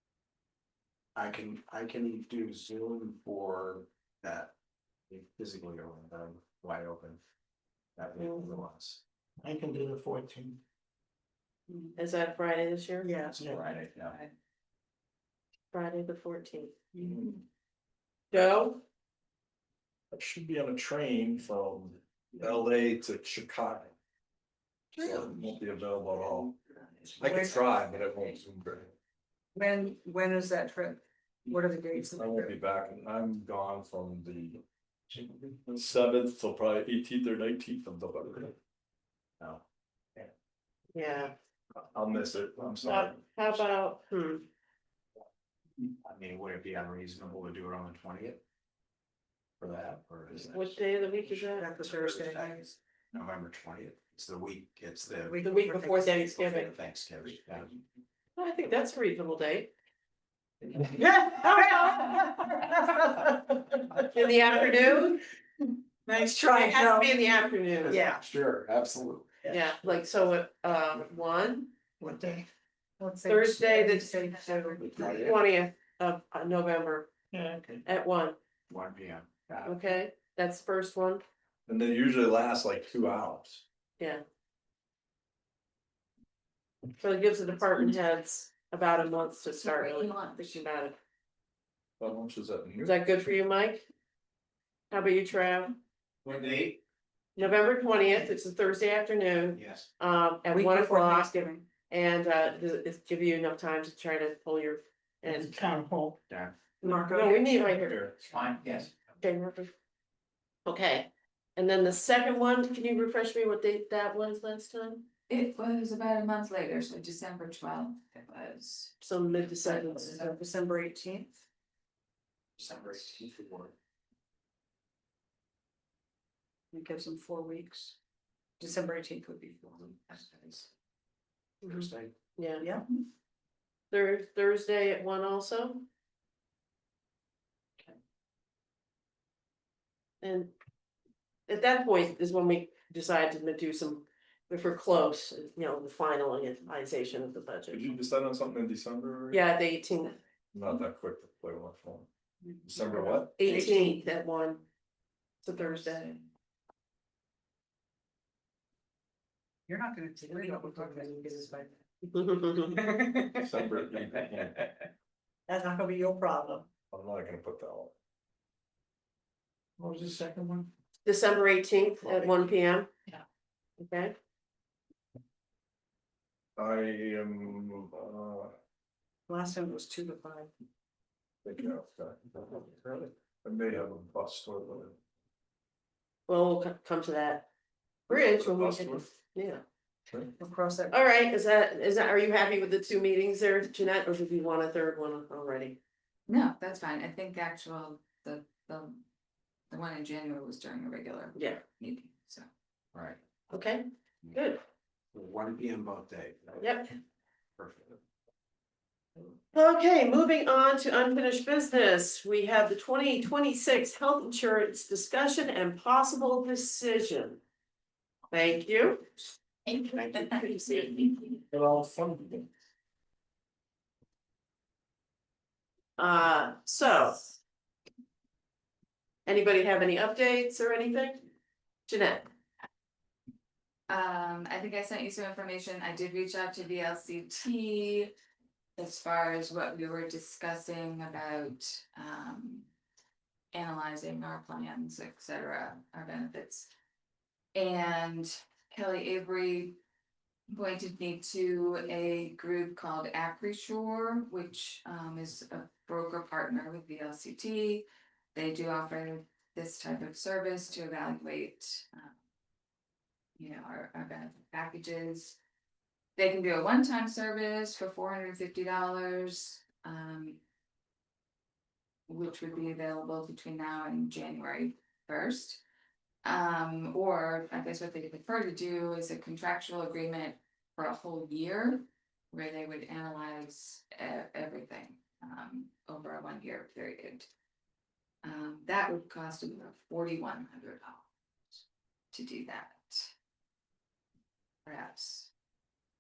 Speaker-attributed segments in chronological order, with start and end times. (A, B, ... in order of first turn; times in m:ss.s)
0:01.2-0:04.5 A
0:05.1-0:07.2 A
0:08.0-0:09.0 A
0:08.2-0:08.5 B
0:09.4-0:10.6 C
0:11.7-0:11.9 D
0:12.0-0:13.1 B
0:13.0-0:13.4 D
0:13.3-0:14.2 A
0:15.7-0:16.7 B
0:17.0-0:17.4 E
0:18.3-0:18.8 B
0:20.1-0:23.9 E
0:25.0-0:26.5 E
0:27.2-0:28.9 E
0:27.3-0:27.6 D
0:29.6-0:32.6 D
0:32.2-0:34.6 E
0:35.7-0:38.6 E
0:41.0-0:41.3 B
0:41.8-0:43.2 E
0:42.8-0:44.5 B
0:46.0-0:48.4 A
0:49.6-0:55.4 A
0:50.5-0:51.7 B
0:51.6-0:52.6 D
0:55.2-0:56.2 D
0:55.4-0:56.7 B
0:56.3-0:57.8 A
0:58.4-0:59.7 B
1:01.0-1:03.0 D
1:01.5-1:02.0 B
1:04.0-1:05.2 B
1:06.1-1:07.1 D
1:06.4-1:08.0 B
1:07.8-1:09.4 A
1:07.9-1:08.2 D
1:09.5-1:11.7 B
1:12.0-1:12.4 C
1:13.0-1:15.2 D
1:13.3-1:17.1 B
1:14.9-1:15.3 A
1:17.3-1:17.8 C
1:17.9-1:18.4 B
1:18.7-1:19.8 A
1:19.6-1:21.2 B
1:21.7-1:23.6 E
1:27.0-1:31.0 B
1:29.6-1:30.6 F
1:32.0-1:33.0 E
1:32.9-1:33.8 B
1:34.9-1:35.8 B
1:36.2-1:36.8 A
1:37.4-1:45.6 B
1:39.6-1:39.9 A
1:40.5-1:41.6 D
1:45.5-1:46.2 C
1:46.3-1:46.7 A
1:46.8-1:47.7 D
1:46.8-1:48.1 B
1:47.8-1:49.0 A
1:49.2-1:49.7 B
1:50.7-1:55.1 B
1:55.3-1:59.0 F
1:59.0-2:00.2 B
1:59.6-2:01.4 D
2:02.6-2:03.7 A
2:06.7-2:08.0 D
2:08.6-2:10.1 D
2:10.1-2:10.7 A
2:11.6-2:12.6 B
2:11.6-2:12.1 A
2:12.6-2:12.9 D
2:13.9-2:15.9 B
2:20.2-2:20.5 B
2:21.5-2:27.8 B
2:27.7-2:29.4 E
2:29.3-2:30.2 B
2:30.5-2:32.1 E
2:32.6-2:33.7 E
2:33.0-2:34.6 B
2:33.4-2:34.0 F
2:35.4-2:36.1 B
2:35.6-2:36.2 F
2:39.7-2:41.8 D
2:42.0-2:42.8 B
2:42.7-2:43.4 D
2:43.4-2:44.6 E
2:45.5-2:46.7 D
2:46.9-2:47.9 E
2:49.8-2:50.6 C
2:50.0-2:50.6 D
2:51.0-2:52.9 B
2:53.8-2:54.1 B
2:56.6-2:58.6 E
2:59.3-3:00.5 D
3:01.4-3:05.0 E
3:06.3-3:07.5 B
3:08.1-3:09.6 B
3:08.1-3:09.0 E
3:10.4-3:11.0 D
3:10.9-3:15.8 B
3:16.3-3:19.0 F
3:19.7-3:22.5 F
3:22.9-3:23.2 A
3:23.5-3:24.6 B
3:25.1-3:26.7 A
3:26.6-3:27.0 B
3:27.6-3:28.0 A
3:29.5-3:37.4 B
3:38.3-3:39.1 B
3:39.7-3:40.6 F
3:40.0-3:41.0 B
3:41.5-3:42.5 E
3:46.0-3:47.2 B
3:49.3-3:51.2 B
3:51.9-3:52.3 B
3:53.9-3:58.1 F
3:58.8-4:02.7 F
4:03.5-4:06.7 F
4:07.6-4:09.8 F
4:10.5-4:22.1 F
4:23.4-4:25.4 F
4:26.2-4:30.4 F
4:32.1-4:35.6 F
4:36.2-4:47.3 F
4:48.2-4:53.1 F
4:54.7-4:55.3 F